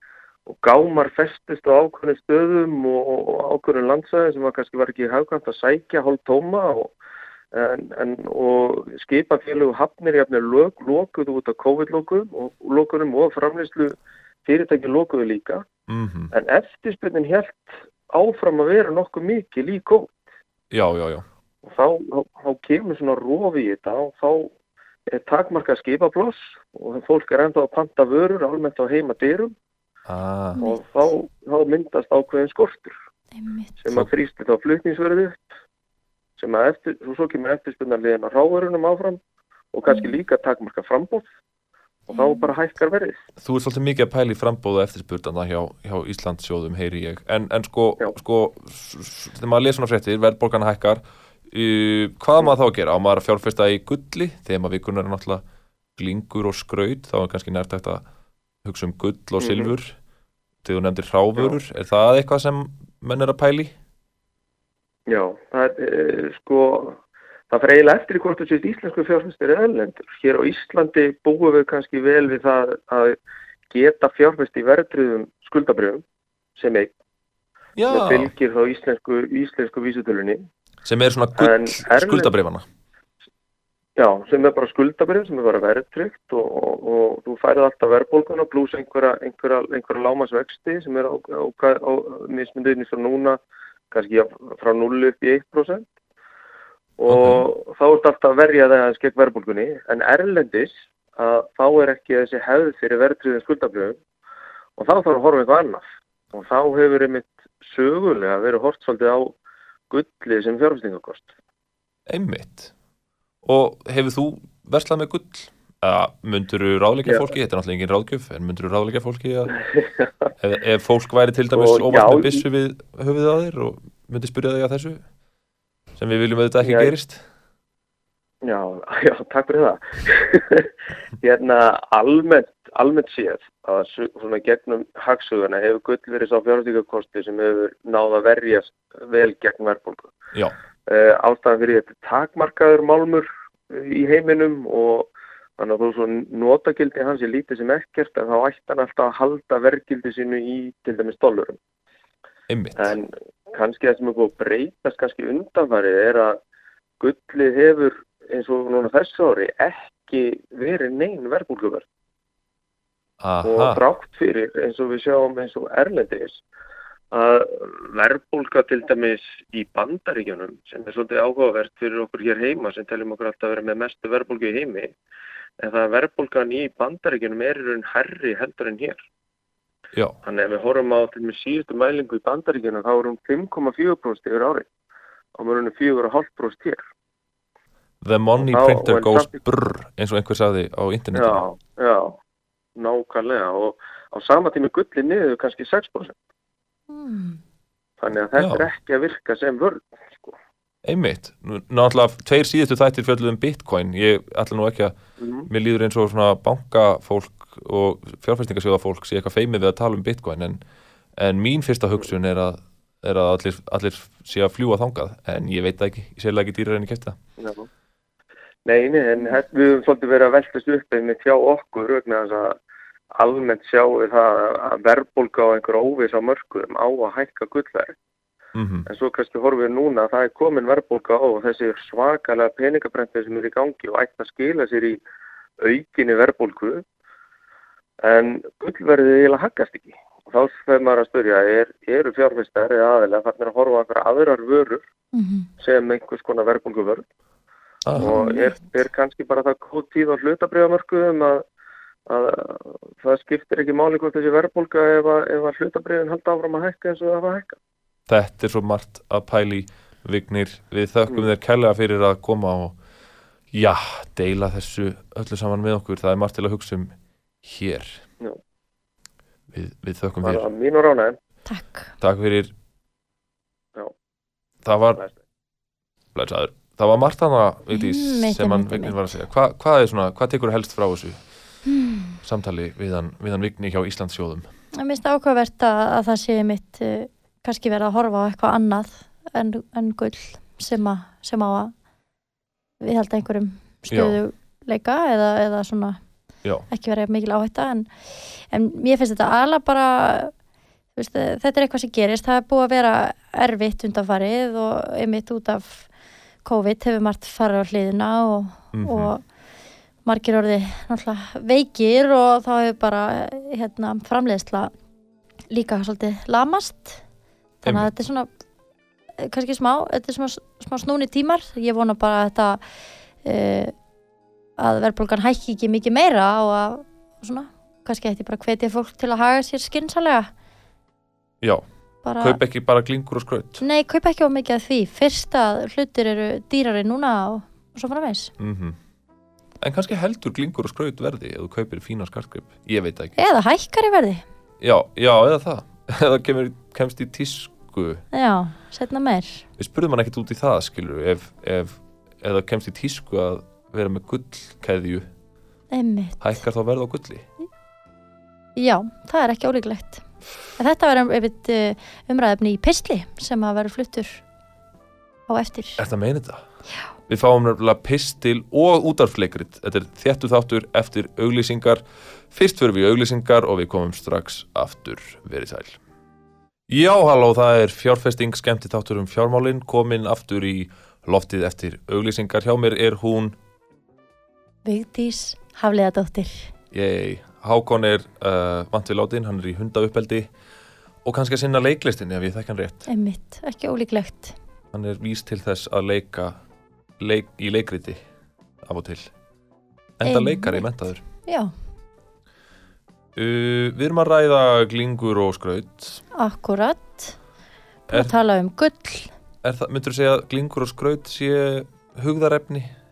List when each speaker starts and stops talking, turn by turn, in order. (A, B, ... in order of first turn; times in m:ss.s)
0:00.5-0:06.9 A
0:07.5-0:15.6 A
0:15.9-0:16.3 B
0:16.3-0:20.2 A
0:20.7-0:21.3 B
0:21.6-0:24.5 A
0:25.1-0:29.5 A
0:30.1-0:30.6 B
0:30.6-0:33.0 A
0:33.4-0:33.8 C
0:33.8-0:35.4 A
0:36.4-0:39.2 A
0:39.7-0:41.3 A
0:39.9-0:40.2 C
0:42.1-0:43.2 A
0:42.1-0:42.5 C
0:43.4-0:55.4 B
0:56.0-0:58.0 B
0:58.6-1:00.0 B
0:59.4-0:59.7 A
1:00.6-1:03.7 B
1:05.1-1:07.0 A
1:07.5-1:13.2 A
1:13.7-1:16.0 A
1:16.6-1:16.9 A
1:17.8-1:18.3 B
1:17.9-1:20.4 A
1:20.8-1:22.6 B
1:21.4-1:22.3 A
1:24.0-1:33.4 A
1:33.9-1:35.9 A
1:37.0-1:44.0 A
1:37.1-1:37.5 B
1:44.8-1:49.3 A
1:49.9-1:51.3 A
1:52.1-1:52.7 B
1:53.4-1:59.5 B
1:59.8-2:00.1 A
2:00.4-2:05.0 B
2:01.5-2:02.4 A
2:06.0-2:07.2 B
2:06.6-2:06.9 A
2:08.4-2:10.7 A
2:11.2-2:20.1 A
2:20.9-2:31.6 A
2:32.5-2:33.0 B
2:32.8-2:36.4 A
2:37.0-2:41.8 A
2:43.2-2:43.8 B
2:43.4-2:46.4 A
2:47.1-2:54.9 A
2:55.6-2:59.0 A
3:00.2-3:04.7 A
3:05.4-3:06.8 A
3:08.0-3:11.4 B
3:08.4-3:09.3 A
3:11.2-3:12.2 A
3:12.8-3:16.2 A
3:16.9-3:17.4 C
3:18.0-3:20.4 A
3:18.4-3:18.7 B
3:20.8-3:25.0 B
3:25.2-3:25.5 A
3:25.5-3:30.6 B
3:31.2-3:37.2 B
3:37.4-3:37.7 A
3:38.7-3:42.6 A
3:43.2-3:48.0 A
3:48.6-3:48.9 B
3:48.9-3:55.0 A
3:55.6-3:56.8 A
3:58.0-4:04.8 A
4:05.1-4:05.5 C
4:05.6-4:07.0 A
4:07.8-4:08.1 B
4:08.0-4:11.4 A
4:08.0-4:08.5 C
4:12.1-4:17.6 A
4:18.1-4:22.8 B
4:23.5-4:26.9 B
4:27.4-4:28.0 B
4:29.5-4:30.5 B
4:30.2-4:31.2 A
4:31.5-4:31.9 C
4:32.0-4:32.5 B
4:34.6-4:35.0 B
4:36.2-4:41.2 B
4:37.7-4:39.1 C
4:41.7-4:42.2 C
4:42.2-4:44.5 B
4:44.8-4:51.7 C
4:52.8-4:56.0 C
4:53.9-4:54.2 B
4:56.7-4:57.9 C
4:58.5-5:00.3 C
5:01.0-5:05.9 C
5:06.4-5:09.2 C
5:08.7-5:09.1 B
5:10.0-5:14.7 C
5:15.5-5:17.0 C
5:17.6-5:18.3 C
5:19.2-5:22.6 C
5:23.2-5:23.7 C
5:24.6-5:30.3 C
5:32.0-5:32.4 C
5:32.2-5:33.6 B
5:33.6-5:38.3 C
5:38.4-5:38.8 B
5:39.6-5:43.2 B
5:43.2-5:44.2 C
5:44.6-5:48.0 B
5:48.1-5:49.4 C
5:49.6-5:55.1 B
5:55.7-5:56.2 C
5:56.2-5:57.3 B
5:58.6-6:00.0 C
6:00.6-6:04.2 C
6:05.3-6:05.8 C
6:05.8-6:06.4 B
6:07.1-6:15.8 B
6:16.7-6:23.4 B
6:24.6-6:26.5 C
6:26.7-6:30.3 B
6:31.0-6:32.9 B
6:32.9-6:34.4 C
6:34.7-6:36.4 B
6:37.0-6:38.0 B
6:38.6-6:39.1 B
6:40.0-6:41.0 B
6:40.0-6:40.7 C
6:41.3-6:41.5 C
6:43.2-6:46.0 B
6:46.2-6:47.2 C
6:47.9-6:49.1 C
6:49.4-6:52.7 B